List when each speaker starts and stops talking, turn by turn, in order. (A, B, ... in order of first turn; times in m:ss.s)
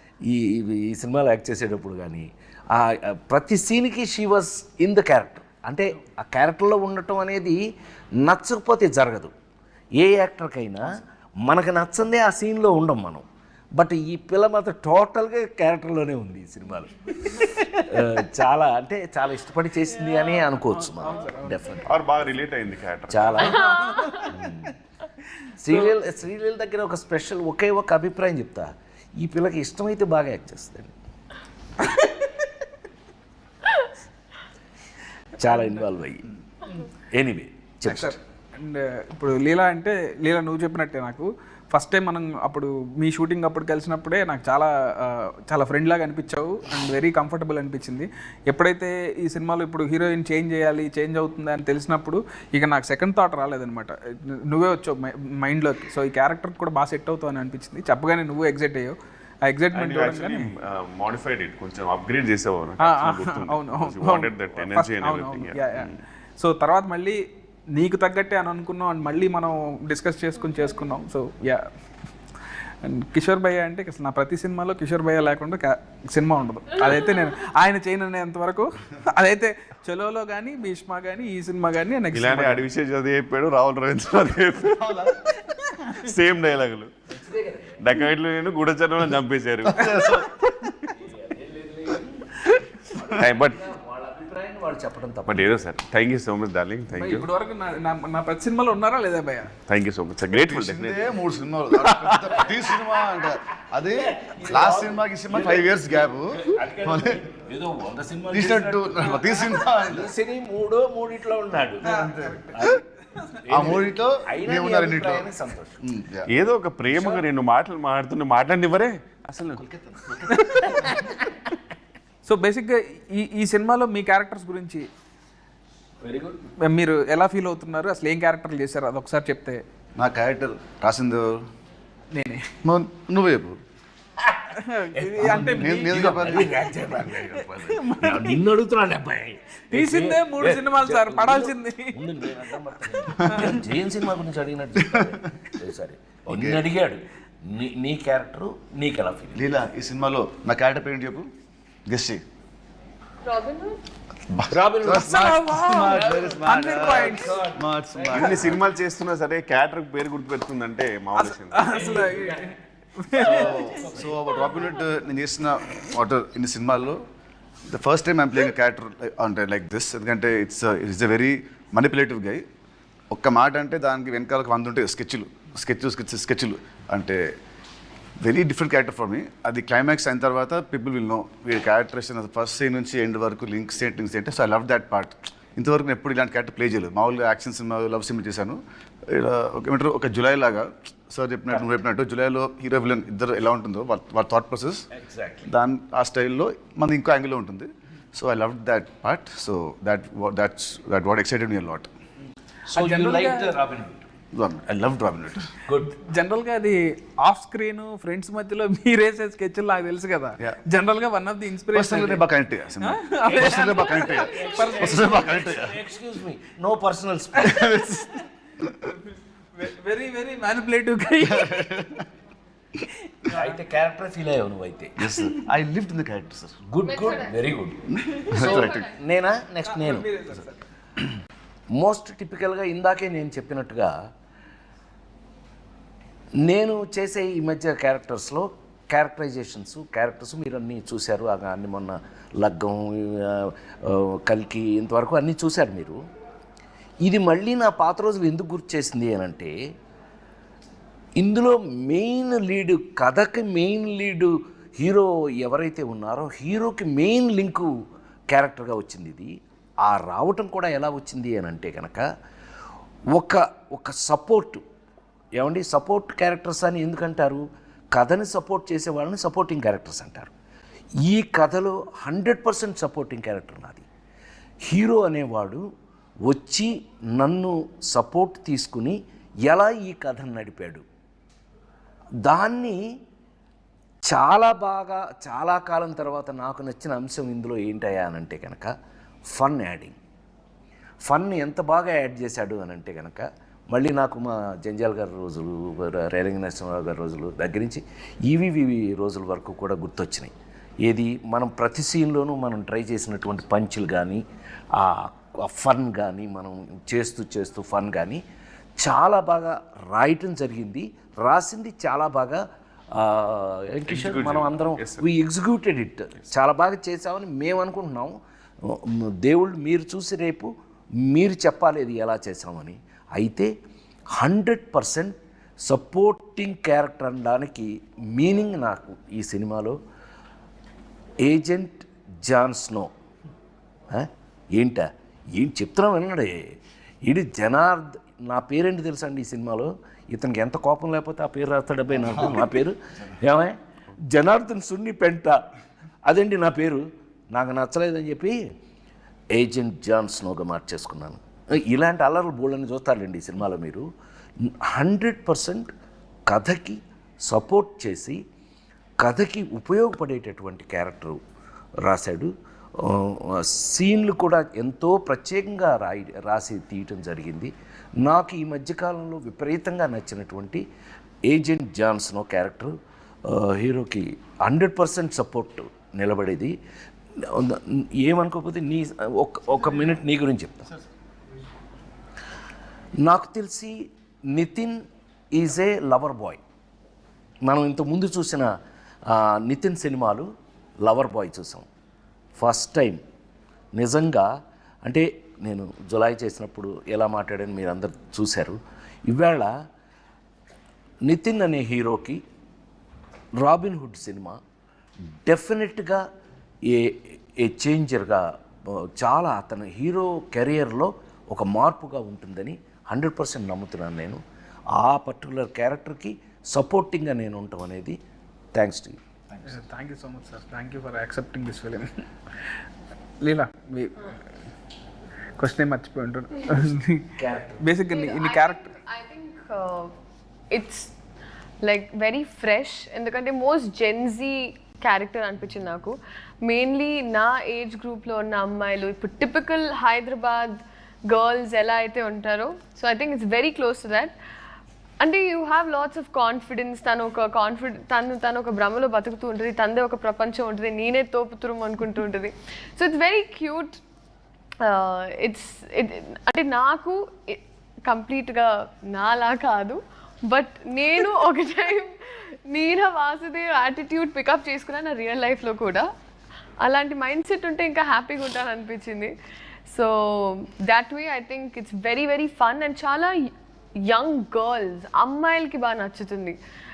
0:00.2-0:07.6 A
0:08.2-0:09.3 A
0:10.0-0:13.2 A
0:13.8-0:22.1 A
0:20.6-0:21.7 B
0:21.9-0:23.6 C
0:23.1-0:24.8 A
0:23.6-0:24.3 D
0:23.9-0:24.2 B
0:25.6-0:31.0 A
0:31.8-0:32.3 B
0:35.4-0:36.3 A
0:35.4-0:35.8 B
0:37.1-0:38.2 A
0:37.9-1:00.5 B
0:59.7-1:06.0 C
1:02.8-1:07.2 B
1:07.8-1:11.6 B
1:12.8-1:22.6 B
1:22.1-1:25.1 C
1:24.8-1:25.2 E
1:25.5-1:25.8 B
1:25.9-1:26.9 C
1:27.1-1:27.8 A
1:27.8-1:30.9 C
1:29.6-1:30.3 E
1:30.9-1:35.6 A
1:33.1-1:33.6 C
1:35.3-1:37.3 C
1:37.0-1:39.5 B
1:39.7-1:41.1 C
1:40.3-1:47.2 E
1:42.2-1:43.3 A
1:43.8-1:52.8 A
1:48.3-1:50.1 E
1:51.9-1:52.5 E
1:52.0-1:52.4 B
1:53.4-1:55.8 A
1:53.5-1:55.3 E
1:55.8-1:56.3 E
1:56.3-1:59.6 C
1:56.9-1:57.2 B
1:59.9-2:00.2 E
2:00.3-2:01.2 B
2:00.6-2:01.0 A
2:02.2-2:04.9 B
2:06.0-2:06.4 A
2:06.6-2:09.6 B
2:10.0-2:11.4 E
2:12.1-2:12.5 B
2:12.6-2:13.6 E
2:14.2-2:29.5 A
2:14.6-2:16.2 B
2:15.5-2:16.6 E
2:17.3-2:18.4 B
2:19.7-2:22.1 B
2:23.2-2:23.6 E
2:23.3-2:23.6 B
2:26.3-2:26.7 E
2:29.4-2:31.3 E
2:31.9-2:32.2 E
2:33.2-2:33.8 D
2:34.3-2:38.6 E
2:34.5-2:35.4 A
2:35.1-2:37.4 B
2:37.0-2:38.4 A
2:38.2-2:42.0 C
2:41.2-2:43.5 B
2:41.7-2:42.5 A
2:43.1-2:44.3 A
2:43.2-2:47.0 E
2:47.7-2:52.4 E
2:53.1-2:57.3 E
2:58.2-3:14.8 E
3:15.0-3:15.5 A
3:15.5-3:21.9 E
3:22.7-3:24.0 A
3:22.7-3:23.6 B
3:24.3-3:25.5 E
3:25.7-3:26.0 A
3:26.1-3:32.2 B
3:31.7-3:35.8 E
3:32.8-3:35.4 B
3:33.4-3:37.6 A
3:37.4-3:38.8 E
3:37.5-3:38.2 B
3:39.6-3:41.9 B
3:41.2-3:42.0 E
3:43.1-3:43.6 B
3:43.3-3:45.0 A
3:45.0-3:46.6 E
3:46.7-3:50.1 A
3:46.8-3:47.5 D
3:47.9-3:48.8 E
3:48.6-3:49.0 D
3:49.6-3:50.6 B
3:51.7-3:53.9 A
3:56.4-4:06.0 A
4:07.0-4:09.5 A
4:11.2-4:17.7 A
4:18.3-4:19.3 A
4:19.8-4:22.1 A
4:23.1-4:24.6 A
4:25.4-4:30.3 A
4:31.0-4:33.9 A
4:34.6-4:35.6 A
4:36.3-4:40.8 A
4:42.2-4:42.8 A
4:44.0-4:48.7 A
4:49.3-4:50.0 A
4:51.1-5:00.3 A
5:00.8-5:04.2 A
5:04.7-5:08.2 A
5:08.8-5:23.5 A
5:13.9-5:15.0 C
5:24.2-5:29.8 A
5:31.2-5:32.9 A
5:33.9-5:36.5 A
5:37.0-5:45.4 A
5:46.1-5:48.5 A
5:49.3-5:53.9 A
5:54.4-5:55.7 A
5:56.3-5:58.2 A
5:59.0-6:01.2 A
6:01.8-6:10.6 A
6:11.3-6:16.6 A
6:17.2-6:20.7 A
6:23.0-6:24.8 A
6:25.3-6:26.4 A
6:27.4-6:28.5 A
6:29.1-6:30.3 A
6:30.8-6:31.7 A
6:32.4-6:33.0 A
6:33.8-6:34.3 A
6:34.8-6:39.5 A
6:41.1-6:42.2 A
6:43.4-6:44.4 A
6:45.3-6:46.0 A
6:46.7-6:54.2 A
6:54.7-6:58.0 A
6:58.5-6:59.5 A
6:59.5-7:02.0 B
7:03.2-7:04.1 B
7:05.4-7:08.7 B
7:07.2-7:07.6 A
7:07.9-7:09.9 D
7:10.5-7:10.9 D
7:11.6-7:24.1 D
7:25.0-7:33.8 D
7:34.6-7:45.9 D
7:46.6-7:49.1 D
7:49.7-7:53.2 D
7:53.8-7:56.4 D